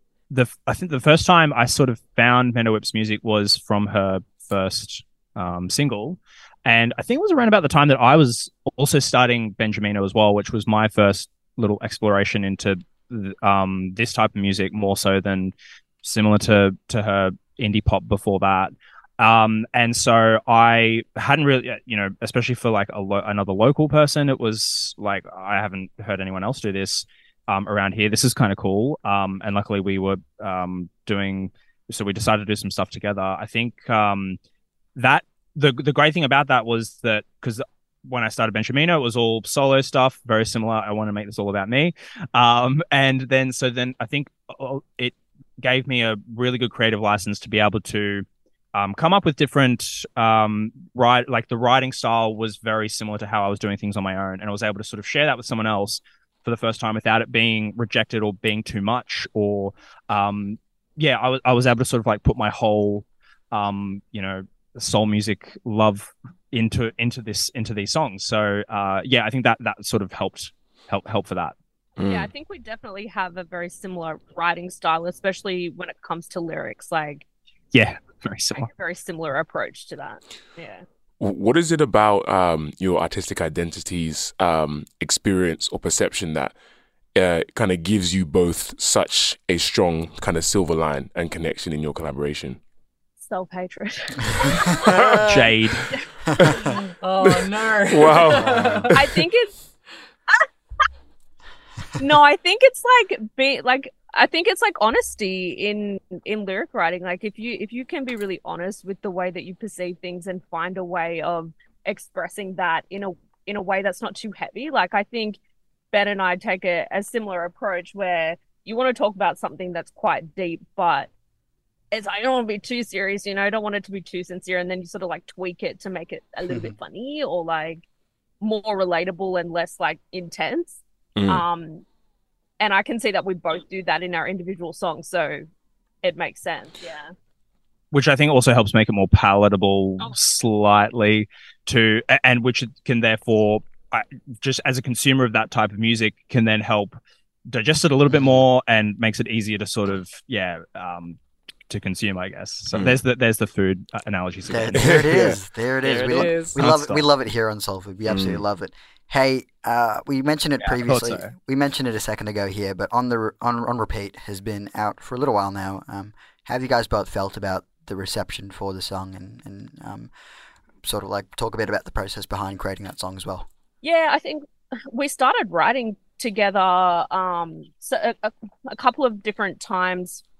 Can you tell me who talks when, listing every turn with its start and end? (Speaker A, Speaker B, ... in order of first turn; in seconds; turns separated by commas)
Speaker A: 0.3-34.4, Speaker A: 35.0-71.5, Speaker B: 72.0-72.3, Speaker C: 72.0-77.2, Speaker A: 77.7-78.7, Speaker C: 78.5-80.8, Speaker B: 81.2-86.5, Speaker B: 87.1-92.6, Speaker C: 93.2-95.0, Speaker B: 94.8-95.2, Speaker D: 94.9-95.2, Speaker A: 95.2-95.9, Speaker D: 96.2-96.5, Speaker E: 96.5-98.9, Speaker B: 97.2-99.2, Speaker C: 98.9-99.5, Speaker C: 102.0-115.4, Speaker C: 115.9-121.1, Speaker C: 121.9-127.8, Speaker D: 126.5-126.7, Speaker C: 128.4-131.8, Speaker B: 131.2-131.4, Speaker C: 132.6-135.4, Speaker C: 136.0-137.1, Speaker A: 137.9-146.9, Speaker A: 147.5-151.2, Speaker D: 148.1-148.4, Speaker A: 151.7-155.0, Speaker B: 152.7-153.0, Speaker D: 154.5-170.1, Speaker B: 154.8-155.4, Speaker E: 155.8-156.6, Speaker A: 156.1-157.0, Speaker B: 158.1-158.4, Speaker A: 160.6-161.3, Speaker D: 170.8-173.5, Speaker C: 173.8-180.2